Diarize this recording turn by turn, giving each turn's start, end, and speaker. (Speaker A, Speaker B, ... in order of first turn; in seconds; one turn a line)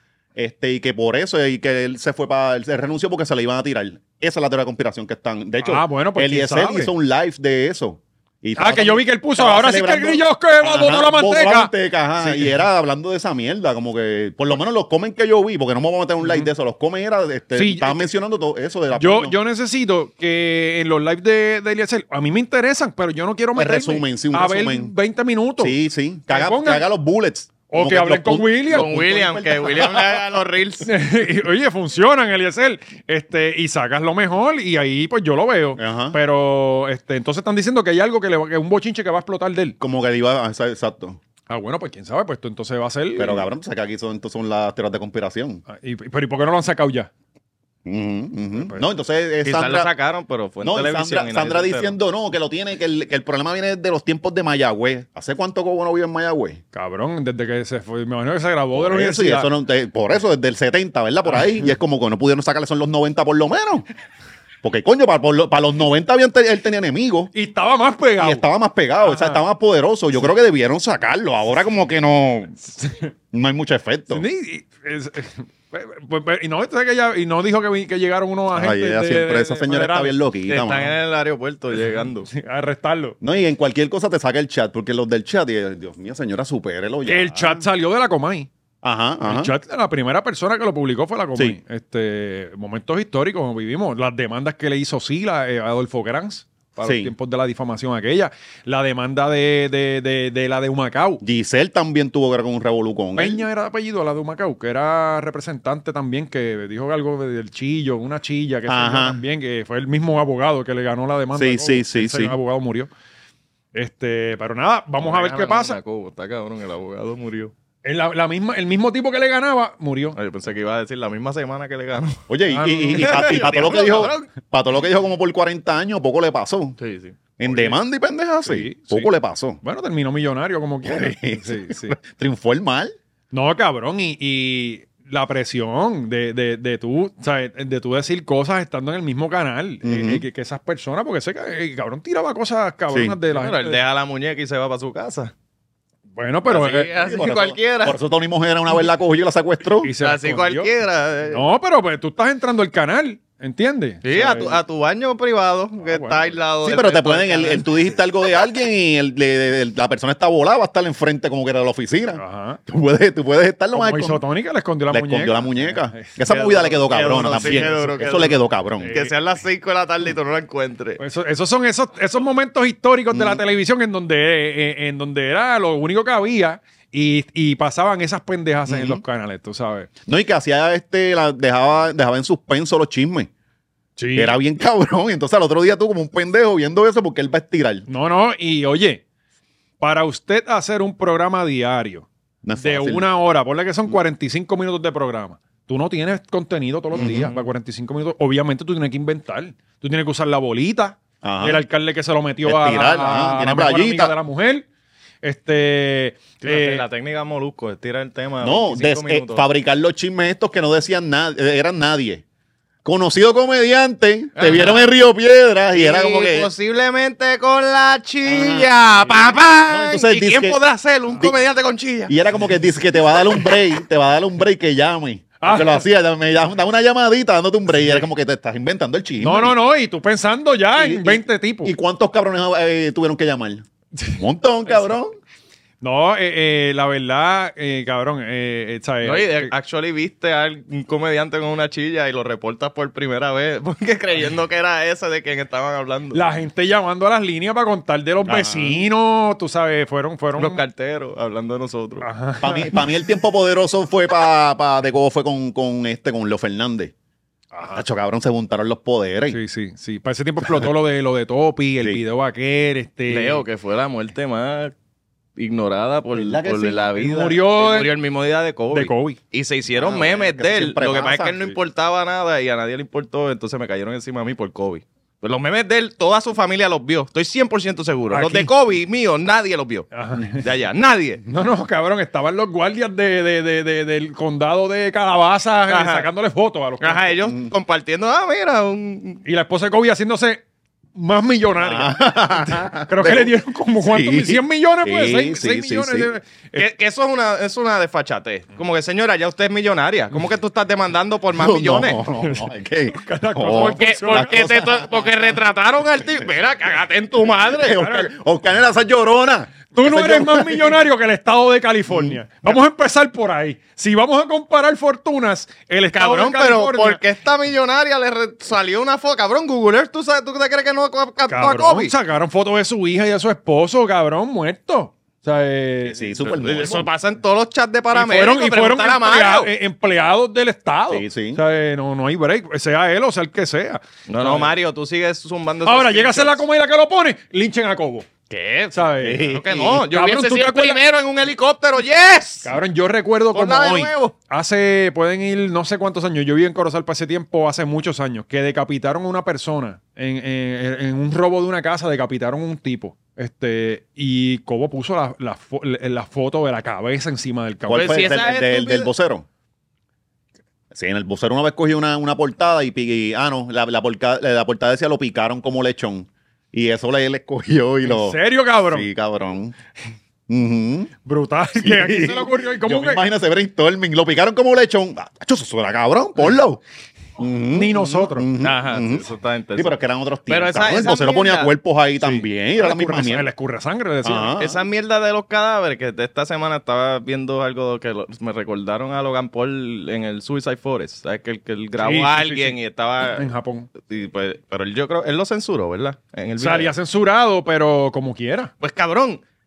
Speaker A: 0.4-19.4
Speaker B: 5.6-6.9
Speaker B: 8.6-12.5
Speaker B: 16.2-16.5
Speaker B: 17.6-18.1
Speaker B: 19.0-25.8
Speaker A: 23.6-24.9
Speaker A: 25.6-30.2
Speaker B: 26.3-26.9
Speaker B: 27.7-28.9
Speaker C: 28.7-30.9
Speaker B: 30.8-39.8
Speaker A: 35.8-36.2
Speaker A: 39.8-41.2
Speaker B: 41.5-43.5
Speaker A: 43.2-45.6
Speaker B: 45.7-47.1
Speaker A: 47.9-49.9
Speaker B: 48.6-48.9
Speaker C: 49.5-52.0
Speaker A: 50.6-56.6
Speaker B: 56.7-59.5
Speaker A: 58.8-63.9
Speaker A: 64.6-67.3
Speaker B: 67.3-68.4
Speaker A: 68.2-72.6
Speaker B: 69.0-69.4
Speaker B: 72.8-73.1
Speaker A: 73.3-74.2
Speaker B: 74.1-80.2
Speaker A: 78.5-80.9
Speaker C: 80.5-82.3
Speaker B: 82.3-83.2
Speaker A: 83.2-87.6
Speaker B: 87.1-88.5
Speaker A: 88.8-89.5
Speaker B: 89.2-101.2
Speaker A: 96.8-97.1
Speaker A: 101.2-103.5
Speaker B: 103.2-112.9
Speaker A: 108.7-109.2
Speaker A: 111.3-112.3
Speaker B: 113.7-115.8
Speaker C: 115.0-117.5
Speaker B: 117.8-120.2
Speaker C: 120.2-122.2
Speaker A: 122.3-126.8
Speaker B: 122.5-123.8
Speaker C: 123.0-124.3
Speaker C: 126.8-127.2
Speaker A: 127.4-129.6
Speaker B: 127.4-127.8
Speaker B: 128.4-132.0
Speaker A: 130.8-132.9
Speaker B: 133.3-143.8
Speaker A: 139.8-140.2
Speaker A: 142.9-143.2
Speaker C: 143.3-145.3
Speaker B: 146.2-146.9
Speaker C: 146.5-148.0
Speaker A: 147.0-149.9
Speaker B: 149.8-150.7
Speaker C: 150.0-151.5
Speaker B: 151.3-154.6
Speaker C: 154.0-157.7
Speaker B: 155.8-156.3
Speaker A: 156.7-164.2
Speaker B: 162.2-162.6
Speaker B: 163.7-166.2
Speaker A: 164.9-168.9
Speaker C: 166.2-171.0
Speaker B: 168.8-169.1
Speaker B: 171.0-179.9
Speaker A: 173.1-173.4
Speaker A: 178.7-179.0
Speaker A: 180.1-183.3
Speaker B: 184.0-184.4
Speaker A: 184.2-187.9
Speaker B: 187.9-189.0
Speaker B: 189.8-192.1
Speaker A: 192.4-193.1
Speaker B: 192.6-204.7
Speaker A: 196.9-197.4
Speaker A: 201.2-201.6
Speaker A: 202.5-204.1
Speaker B: 205.2-206.8
Speaker C: 206.4-209.4
Speaker A: 208.4-212.2
Speaker A: 212.8-216.5
Speaker C: 214.4-214.9
Speaker C: 215.7-222.1
Speaker A: 218.3-218.7
Speaker A: 219.7-220.6
Speaker A: 222.1-229.5
Speaker B: 225.4-225.8
Speaker B: 229.2-231.7
Speaker A: 230.8-235.2
Speaker B: 235.8-239.5
Speaker C: 239.0-246.4
Speaker B: 246.1-250.6
Speaker A: 248.2-248.8
Speaker C: 250.4-252.1
Speaker B: 252.0-252.8
Speaker A: 252.4-256.9
Speaker B: 257.5-257.8
Speaker A: 257.8-259.4
Speaker B: 259.3-263.4
Speaker C: 263.1-264.7
Speaker C: 265.4-281.2
Speaker A: 266.1-266.9
Speaker B: 267.0-267.9
Speaker B: 268.7-269.2
Speaker A: 269.8-271.5
Speaker B: 278.1-278.5
Speaker B: 279.9-280.4
Speaker B: 281.3-287.2
Speaker C: 285.7-286.1
Speaker C: 286.8-289.2
Speaker B: 289.2-290.4
Speaker B: 290.9-296.6
Speaker A: 291.6-296.1
Speaker C: 296.6-302.0
Speaker A: 301.4-305.1
Speaker B: 302.2-304.4
Speaker C: 303.6-307.9
Speaker A: 307.5-310.8
Speaker B: 307.8-308.1
Speaker B: 309.7-317.0
Speaker A: 311.9-312.6
Speaker C: 316.0-321.9
Speaker B: 321.3-326.1
Speaker A: 325.8-326.9
Speaker C: 326.2-329.5
Speaker B: 327.9-334.5
Speaker A: 330.9-331.4
Speaker C: 334.1-336.4
Speaker B: 335.6-338.1
Speaker C: 338.3-342.5
Speaker B: 338.7-340.8
Speaker A: 339.0-339.9
Speaker B: 342.4-358.2
Speaker C: 343.3-344.1
Speaker A: 357.7-359.3
Speaker C: 357.7-358.9
Speaker A: 360.7-369.6
Speaker B: 367.9-368.9
Speaker A: 370.3-370.9
Speaker B: 371.1-373.0
Speaker A: 371.6-376.6
Speaker A: 377.2-383.3
Speaker B: 377.5-378.3
Speaker C: 378.4-381.5
Speaker B: 382.0-384.4
Speaker A: 384.0-384.6
Speaker C: 384.4-393.3
Speaker B: 391.8-393.7
Speaker C: 393.8-396.7
Speaker B: 396.4-398.5
Speaker C: 398.6-399.2